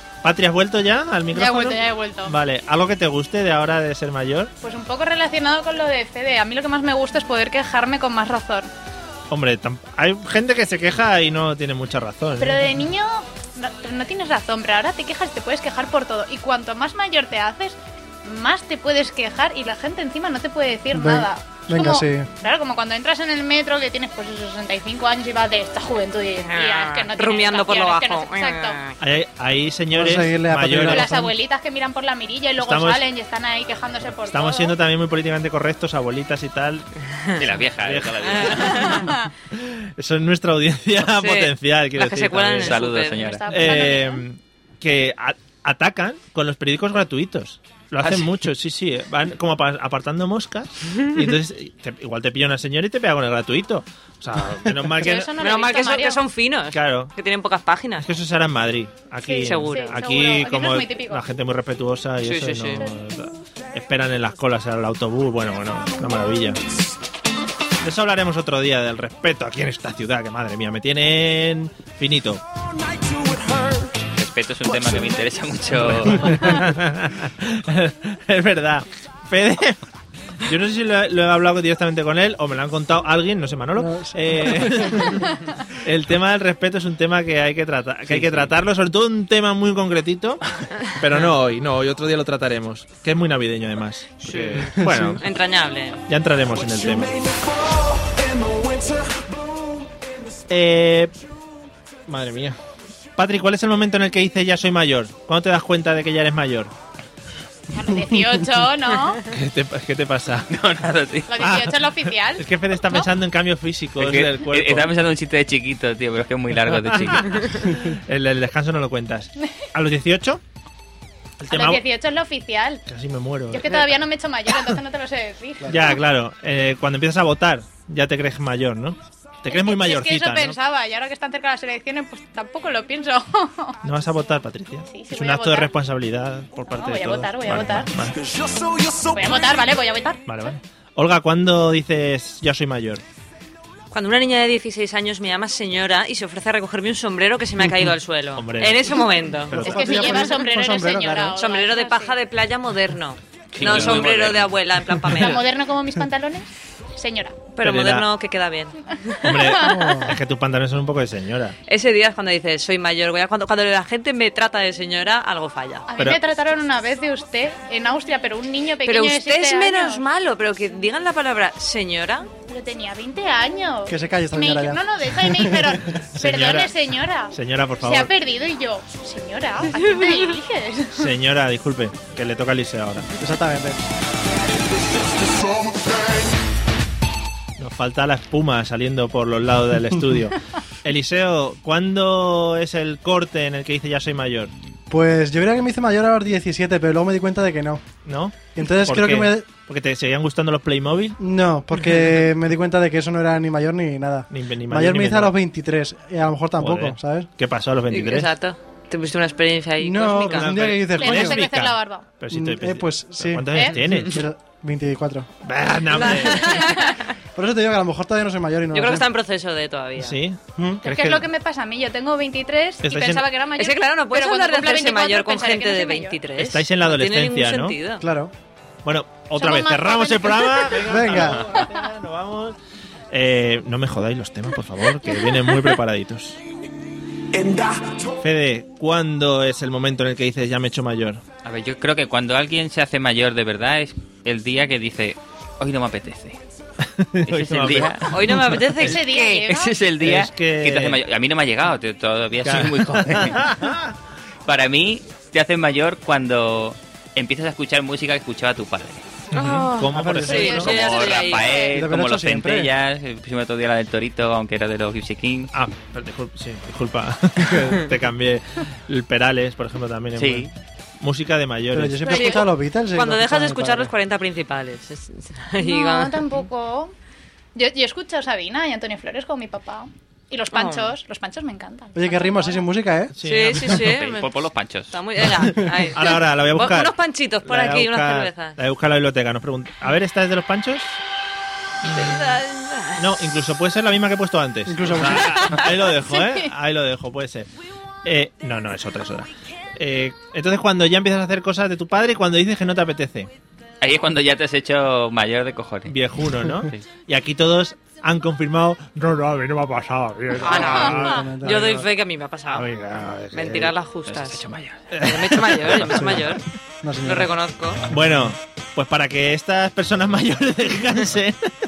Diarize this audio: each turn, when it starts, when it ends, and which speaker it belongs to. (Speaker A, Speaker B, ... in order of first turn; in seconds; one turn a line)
Speaker A: 0.2-4.5
Speaker B: 1.3-2.4
Speaker B: 4.6-8.7
Speaker A: 9.3-12.7
Speaker B: 12.4-28.8
Speaker C: 20.9-22.3
Speaker D: 26.4-29.0
Speaker A: 29.0-31.3
Speaker C: 29.9-31.3
Speaker B: 30.8-34.8
Speaker A: 32.6-33.0
Speaker A: 34.3-36.9
Speaker D: 37.1-37.4
Speaker E: 37.4-39.0
Speaker A: 37.8-38.9
Speaker D: 38.2-39.1
Speaker B: 39.0-39.3
Speaker A: 39.5-42.8
Speaker D: 41.1-43.4
Speaker E: 42.6-43.5
Speaker B: 43.2-44.2
Speaker A: 43.5-55.3
Speaker E: 48.0-48.3
Speaker D: 50.9-51.2
Speaker B: 55.0-56.2
Speaker D: 55.4-58.0
Speaker A: 56.7-57.1
Speaker A: 58.0-66.6
Speaker B: 59.2-61.2
Speaker D: 59.4-60.0
Speaker D: 62.2-62.9
Speaker A: 67.8-72.4
Speaker E: 74.1-76.6
Speaker A: 76.0-79.8
Speaker A: 80.4-85.2
Speaker C: 83.8-85.2
Speaker A: 85.8-95.2
Speaker D: 94.2-96.0
Speaker C: 94.8-95.2
Speaker A: 96.1-97.3
Speaker A: 100.5-101.1
Speaker A: 102.1-102.6
Speaker A: 103.2-106.7
Speaker B: 107.7-109.2
Speaker A: 109.3-110.5
Speaker E: 110.5-111.3
Speaker B: 111.3-113.1
Speaker A: 111.4-114.9
Speaker E: 114.0-117.7
Speaker A: 116.7-120.4
Speaker A: 121.4-121.8
Speaker B: 121.5-122.8
Speaker A: 122.9-124.0
Speaker B: 123.5-126.0
Speaker A: 125.7-130.6
Speaker B: 129.5-133.8
Speaker A: 133.8-138.2
Speaker B: 134.9-135.7
Speaker B: 136.7-137.9
Speaker B: 139.1-140.2
Speaker A: 140.3-143.0
Speaker D: 143.9-149.6
Speaker A: 148.3-150.2
Speaker C: 149.5-151.3
Speaker B: 149.6-152.2
Speaker D: 151.4-155.4
Speaker E: 153.5-154.5
Speaker A: 153.6-154.1
Speaker B: 155.1-157.4
Speaker D: 157.5-159.4
Speaker A: 157.6-158.1
Speaker A: 159.2-161.5
Speaker B: 159.3-159.8
Speaker C: 159.6-160.1
Speaker D: 161.7-165.9
Speaker B: 165.9-170.0
Speaker D: 168.8-172.3
Speaker B: 172.5-181.1
Speaker C: 173.9-175.8
Speaker A: 176.2-176.7
Speaker A: 177.3-178.1
Speaker D: 179.8-180.3
Speaker A: 180.9-183.1
Speaker C: 183.2-183.8
Speaker A: 187.6-194.5
Speaker C: 194.9-197.9
Speaker A: 198.0-201.2
Speaker C: 198.5-199.5
Speaker C: 201.2-207.3
Speaker A: 204.3-205.3
Speaker A: 206.6-208.3
Speaker D: 207.9-210.5
Speaker C: 209.8-211.4
Speaker A: 210.2-214.2
Speaker B: 210.9-212.1
Speaker C: 212.3-215.3
Speaker B: 213.5-213.8
Speaker A: 215.4-216.7
Speaker D: 215.9-217.1
Speaker C: 217.3-219.1
Speaker D: 218.7-220.2
Speaker A: 220.0-221.3
Speaker C: 220.6-220.8
Speaker B: 220.8-226.2
Speaker A: 222.8-223.2
Speaker D: 223.6-228.0
Speaker A: 226.4-227.8
Speaker C: 228.0-228.3
Speaker A: 228.8-232.6
Speaker B: 229.3-231.1
Speaker C: 230.8-231.5
Speaker A: 233.1-236.4
Speaker A: 238.2-241.2
Speaker E: 241.4-246.4
Speaker A: 246.8-248.9
Speaker E: 247.3-248.0
Speaker D: 248.1-249.5
Speaker B: 248.8-249.7
Speaker E: 249.4-253.5
Speaker A: 250.0-251.0
Speaker A: 252.4-253.9
Speaker E: 254.4-259.0
Speaker A: 259.3-261.0
Speaker D: 259.3-261.6
Speaker C: 259.9-260.7
Speaker B: 260.4-261.7
Speaker E: 260.6-265.5
Speaker C: 261.7-262.7
Speaker A: 265.5-272.1
Speaker E: 270.2-270.5
Speaker C: 271.7-273.9
Speaker B: 272.1-272.4
Speaker D: 272.1-276.2
Speaker B: 275.6-276.9
Speaker B: 277.5-282.7
Speaker D: 280.5-280.9
Speaker C: 281.9-283.1
Speaker A: 283.1-283.9
Speaker D: 283.2-284.3
Speaker E: 283.6-284.9
Speaker D: 284.9-288.6
Speaker A: 285.4-291.0
Speaker A: 291.9-292.2
Speaker D: 291.9-293.1
Speaker A: 293.0-297.5
Speaker C: 294.7-295.6
Speaker B: 296.1-296.5
Speaker A: 298.0-303.3
Speaker E: 303.8-305.9
Speaker A: 305.9-311.2
Speaker D: 310.4-312.7
Speaker C: 310.6-311.8
Speaker A: 312.5-313.7
Speaker D: 313.3-314.4
Speaker E: 314.1-314.8
Speaker A: 314.9-316.2
Speaker D: 315.0-316.4
Speaker C: 316.8-317.3
Speaker D: 317.0-317.8
Speaker A: 317.9-321.4